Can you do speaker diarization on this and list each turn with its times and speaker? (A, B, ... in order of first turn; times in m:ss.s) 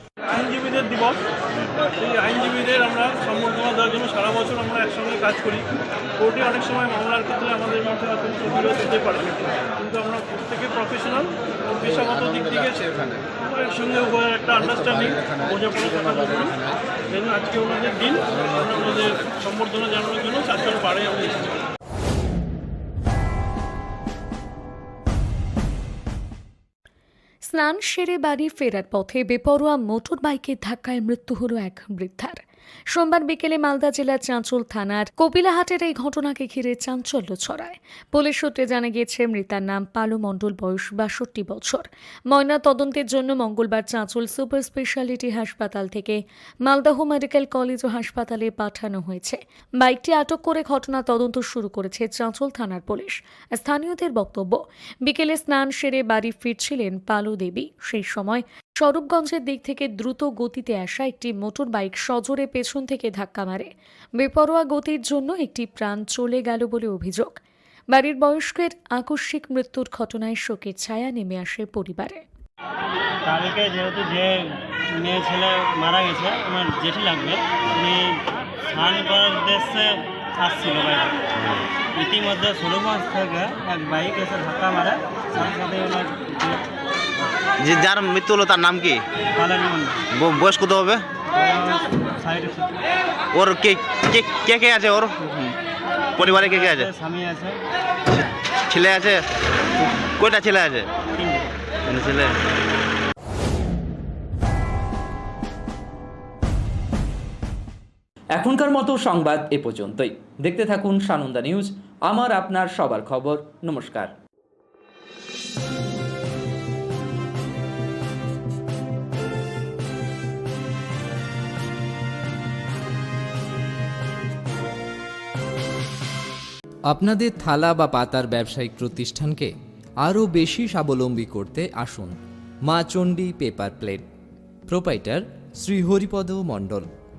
0:00.3-0:05.6 A
0:06.2-0:21.5 A
0:27.5-1:07.4 B
1:07.9-1:12.2 B
1:13.3-1:18.2 C
1:18.7-1:21.1 C
1:22.0-1:26.6 C
1:27.6-1:29.0 D
1:29.4-1:30.0 C
1:30.1-1:31.0 D
1:31.3-1:32.7 C
1:33.3-1:35.6 D
1:36.2-1:36.9 D
1:36.2-1:37.6 C
1:38.1-1:39.2 D
1:40.2-1:40.9 D
1:41.9-1:42.3 D
1:48.3-1:54.1 E
2:06.9-2:09.5 E
2:10.0-2:14.0 E
2:14.7-2:16.9 E